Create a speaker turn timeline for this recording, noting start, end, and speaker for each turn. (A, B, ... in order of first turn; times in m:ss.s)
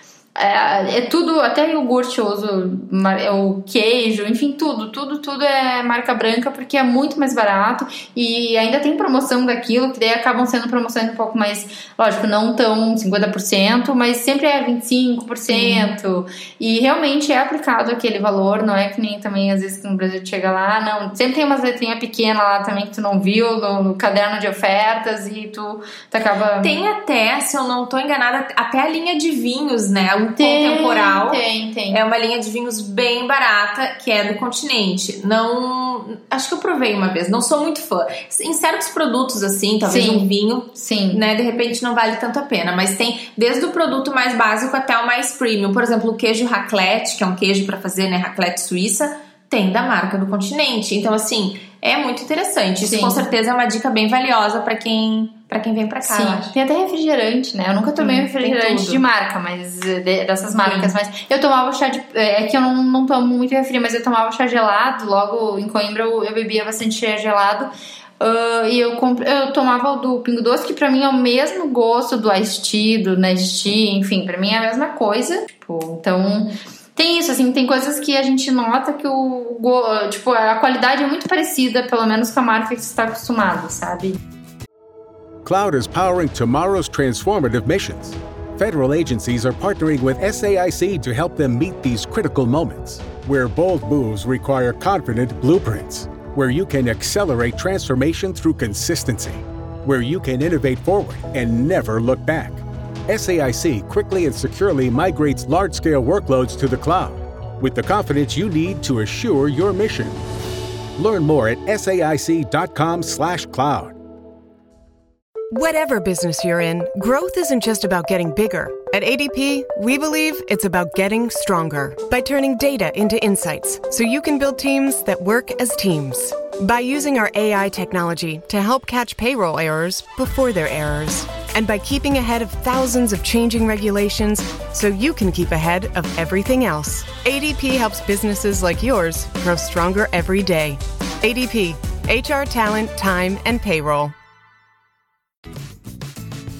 0:00.3-0:26.7 A
0:15.5-0:15.9 B
0:26.6-0:56.5 B
0:30.4-0:32.0 A
0:39.8-0:41.2 A
0:52.8-0:53.2 A
0:56.0-1:24.2 A
0:58.0-0:59.0 B
1:00.6-1:00.9 B
1:25.4-1:50.2 C
1:51.0-1:54.0 C
1:55.5-2:24.1 D